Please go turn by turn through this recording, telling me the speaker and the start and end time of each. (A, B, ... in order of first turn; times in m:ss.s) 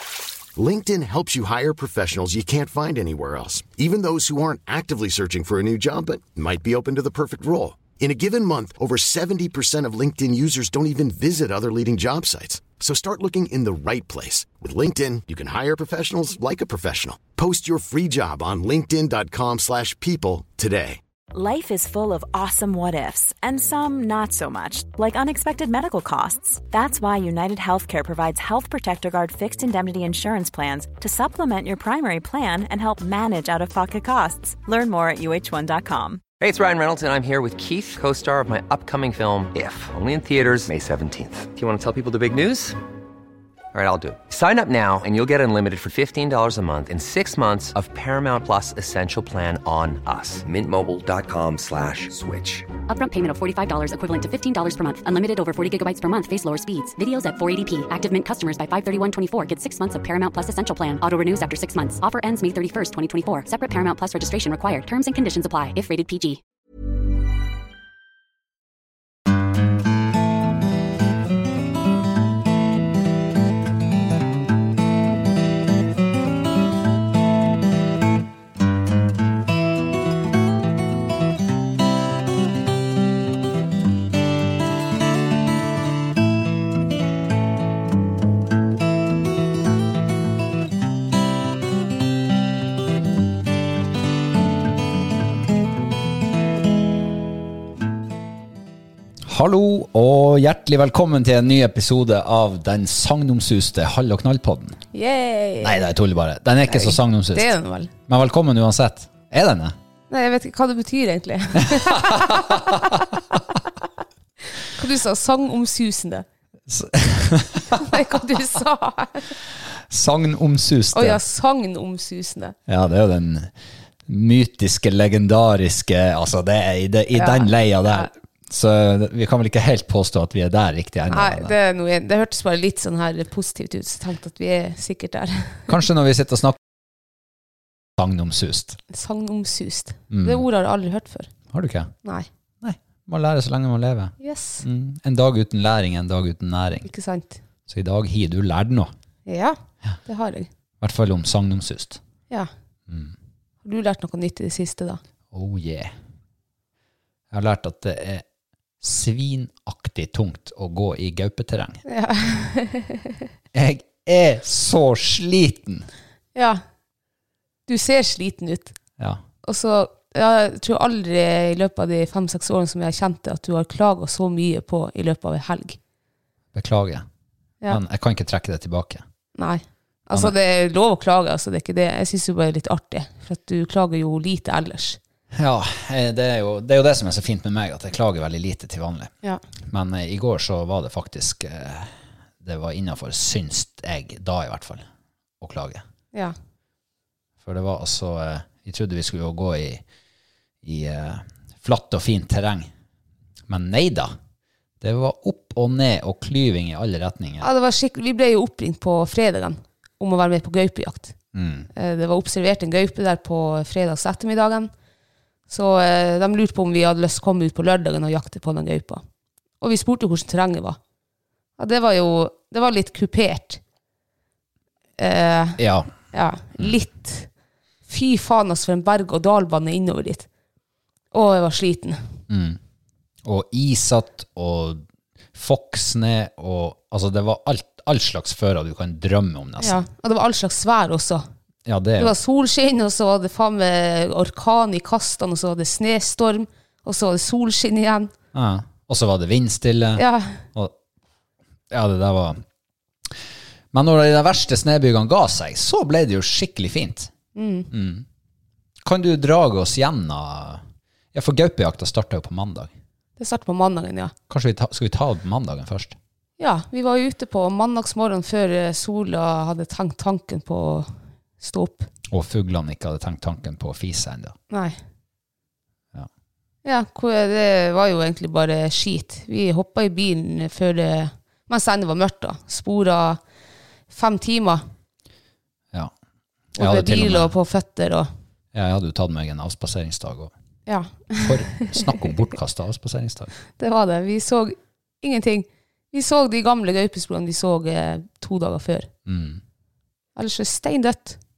0:00.6-0:21.0 A
0:21.3-0:36.2 B
0:36.4-0:42.8 C
0:43.7-0:52.7 C
0:52.9-1:06.4 D
1:39.3-1:44.8 E
1:44.9-1:45.9 F
1:45.6-1:47.5 E
1:46.7-1:47.9 F
1:48.1-1:49.8 E
1:50.1-1:52.6 F
1:51.7-1:53.0 E
1:54.6-1:56.2 F
1:56.7-1:58.0 E
1:57.7-1:59.3 F
1:59.7-2:01.2 E
2:00.9-2:02.6 F
2:02.7-2:03.5 E
2:04.1-2:11.6 E
2:07.1-2:08.1 F
2:11.1-2:15.6 F
2:15.7-2:16.6 E
2:18.0-2:18.8 E
2:18.9-2:21.3 F
2:20.1-2:20.4 E
2:21.5-2:21.9 E
2:22.6-2:26.9 E
2:24.2-2:24.6 F
2:26.8-2:27.4 F
2:27.7-2:28.9 E
2:29.3-2:30.5 F
2:30.8-2:32.0 E
2:32.9-2:33.1 E
2:33.6-2:35.0 F
2:35.3-2:35.9 E
2:37.3-2:38.2 E
2:38.8-2:41.8 E
2:41.9-2:43.1 F
2:43.5-2:45.9 E
2:46.4-2:46.6 F
2:47.7-2:48.8 F
2:49.4-2:55.8 F
2:56.5-2:57.1 E
2:57.7-2:59.0 E
2:59.4-3:05.0 F
3:05.3-3:09.1 E
3:09.7-3:14.9 E
3:15.4-3:15.8 E
3:17.4-3:19.8 E
3:20.6-3:22.7 E
3:23.5-3:24.1 E
3:24.8-3:27.5 E
3:27.4-3:31.2 F
3:31.3-3:31.7 E
3:31.7-3:34.7 F
3:35.5-3:39.0 F
3:39.6-3:40.8 F
3:41.6-3:43.6 F
3:45.0-3:47.3 F
3:45.6-3:45.9 E
3:47.9-3:50.3 F
3:51.1-3:52.0 F
3:52.3-3:52.6 E
3:53.2-3:54.8 E
3:55.3-3:59.8 E
3:59.6-4:01.2 F
4:01.6-4:02.1 E
4:02.0-4:08.1 F
4:08.3-4:10.7 E
4:10.0-4:10.4 F
4:11.7-4:12.4 E
4:13.7-4:17.1 E
4:17.4-4:17.7 F
4:17.7-4:18.0 E
4:18.8-4:20.6 E
4:21.1-4:22.7 E
4:23.2-4:24.1 F
4:24.3-4:26.0 E
4:26.4-4:31.9 F
4:32.1-4:34.4 E
4:34.5-4:34.8 F
4:36.6-4:43.2 F
4:43.9-4:44.6 F
4:46.6-4:47.3 E
4:46.6-4:48.1 F
4:48.5-4:50.3 E
4:50.7-4:51.9 F
4:51.2-4:53.3 E
4:53.6-4:58.9 F
4:59.1-4:59.4 E
5:00.2-5:01.2 F